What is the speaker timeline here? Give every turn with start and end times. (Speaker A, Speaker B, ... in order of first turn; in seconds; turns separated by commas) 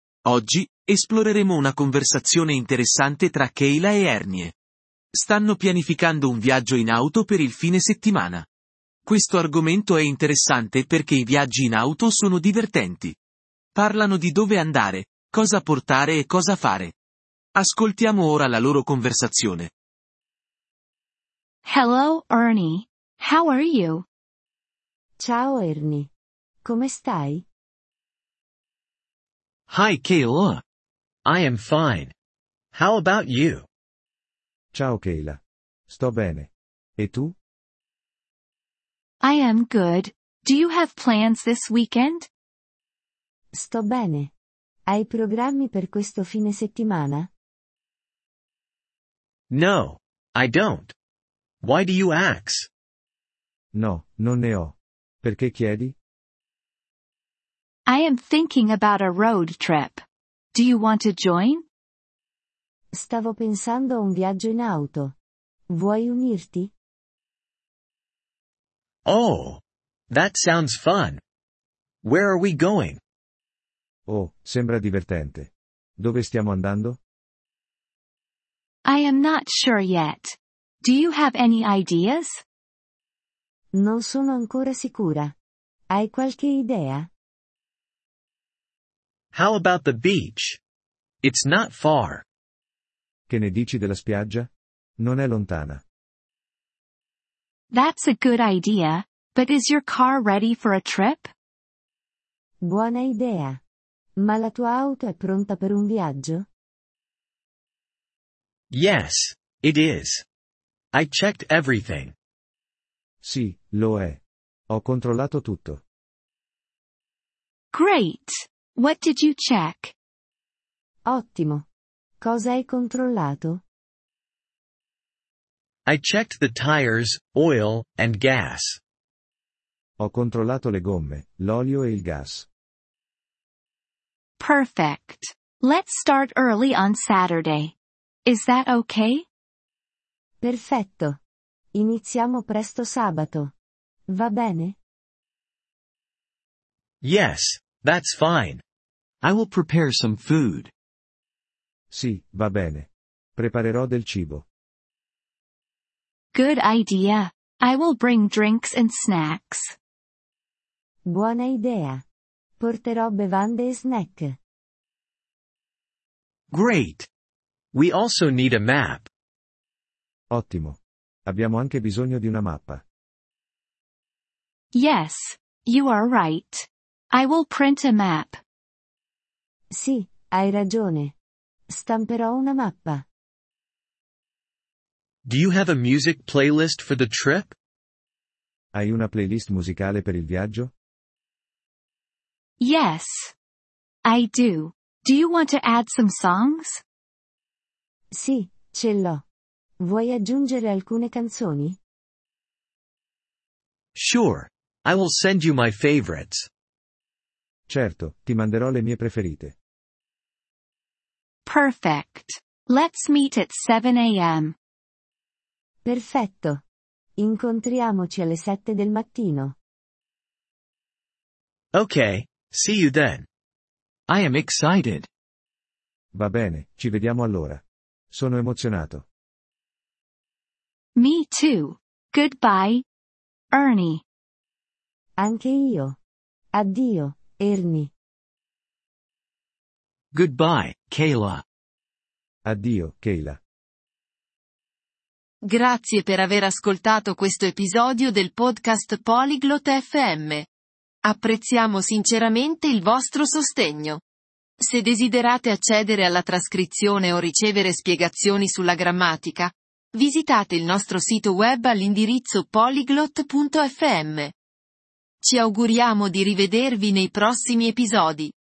Speaker A: 0.2-4.5, Speaker A: 5.1-8.4, Speaker A: 9.1-13.2, Speaker A: 13.7-16.9, Speaker A: 17.5-19.7, Speaker B: 21.6-24.1, Speaker C: 25.2-26.1, Speaker C: 26.6-27.4, Speaker D: 29.7-30.6, Speaker D: 31.2-32.1, Speaker D: 32.7-33.6, Speaker E: 34.7-37.3, Speaker B: 39.2-42.3, Speaker C: 43.5-44.3, Speaker C: 44.9-47.3, Speaker D: 49.5-50.9, Speaker D: 51.6-52.7, Speaker E: 53.7-56.0, Speaker B: 57.9-60.0, Speaker B: 60.5-61.6, Speaker C: 62.9-65.1, Speaker C: 65.7-66.7, Speaker D: 69.0-71.2, Speaker D: 72.0-73.0, Speaker E: 74.1-77.0, Speaker B: 78.8-82.4, Speaker C: 83.7-85.3, Speaker C: 85.9-87.1, Speaker D: 89.3-90.6, Speaker D: 91.2-92.2, Speaker E: 93.3-95.8, Speaker B: 97.7-101.3, Speaker C: 102.6-103.6, Speaker C: 104.2-106.4, Speaker D: 108.7-110.2, Speaker D: 110.9-112.1, Speaker E: 113.2-115.8, Speaker B: 117.7-119.9, Speaker C: 121.0-121.6, Speaker C: 122.2-123.6, Speaker D: 125.8-128.8, Speaker E: 130.0-132.4, Speaker B: 134.4-137.7, Speaker B: 138.2-139.2, Speaker C: 140.4-141.2, Speaker C: 141.7-143.5, Speaker C: 144.1-144.8, Speaker D: 147.0-148.6, Speaker D: 149.2-150.7, Speaker E: 151.9-154.4, Speaker B: 156.3-159.8, Speaker C: 161.1-162.0, Speaker C: 162.6-164.3, Speaker D: 166.5-167.1, Speaker D: 167.7-169.1, Speaker E: 170.3-172.8, Speaker B: 174.7-178.4, Speaker C: 179.7-181.1, Speaker C: 181.7-183.0, Speaker D: 185.2-187.5, Speaker E: 188.7-190.7, Speaker B: 192.6-193.3, Speaker B: 194.0-196.8, Speaker C: 198.1-199.2, Speaker C: 199.8-201.8, Speaker D: 203.9-206.5, Speaker E: 207.7-209.5, Speaker B: 211.4-214.6, Speaker C: 215.8-216.6, Speaker C: 217.2-219.5, Speaker D: 221.7-223.2, Speaker D: 224.1-225.1, Speaker E: 226.1-229.0, Speaker B: 230.9-232.8, Speaker B: 233.5-234.0, Speaker C: 235.2-235.9, Speaker C: 236.5-237.9, Speaker D: 240.1-241.4, Speaker E: 242.4-243.4, Speaker F: 245.4-250.5, Speaker F: 251.0-254.0, Speaker F: 254.6-264.3, Speaker F: 265.2-268.3